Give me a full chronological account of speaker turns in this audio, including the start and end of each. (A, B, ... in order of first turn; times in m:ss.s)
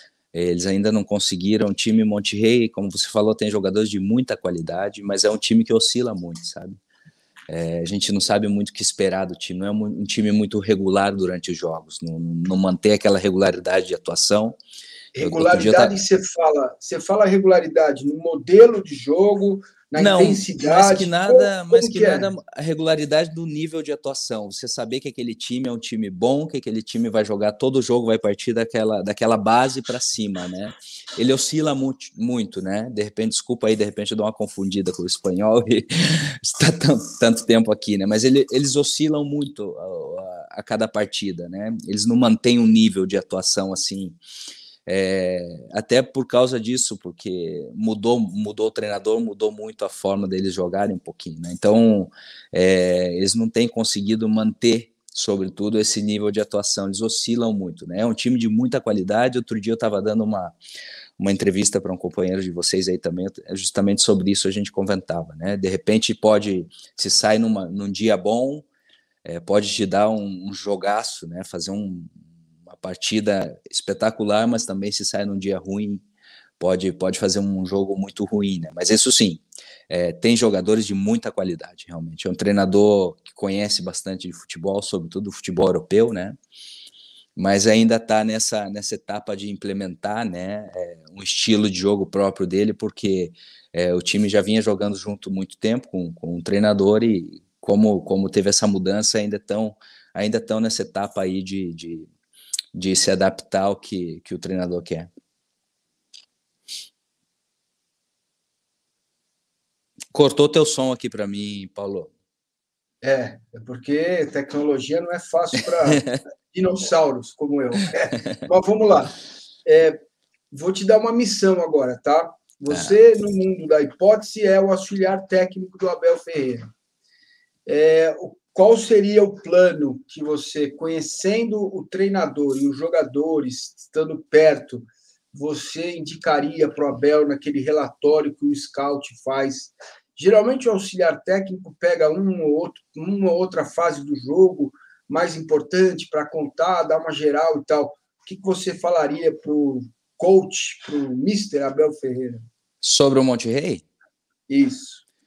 0:00.3-0:06.8 A
0:07.5-0:14.6 A
0:15.2-0:22.3 B
0:15.2-0:15.9 A
0:20.0-0:44.2 A
0:44.9-1:00.5 A
1:01.2-1:08.7 A
1:09.2-1:16.0 A
1:16.6-1:26.4 A
1:27.4-1:42.1 A
1:42.7-1:45.1 A
1:50.1-1:52.1 A
1:53.0-1:59.1 B
1:55.9-1:56.2 A
1:59.6-2:06.7 B
2:02.7-2:03.0 A
2:07.7-2:32.4 B
2:32.8-2:33.8 A
2:34.5-2:35.0 B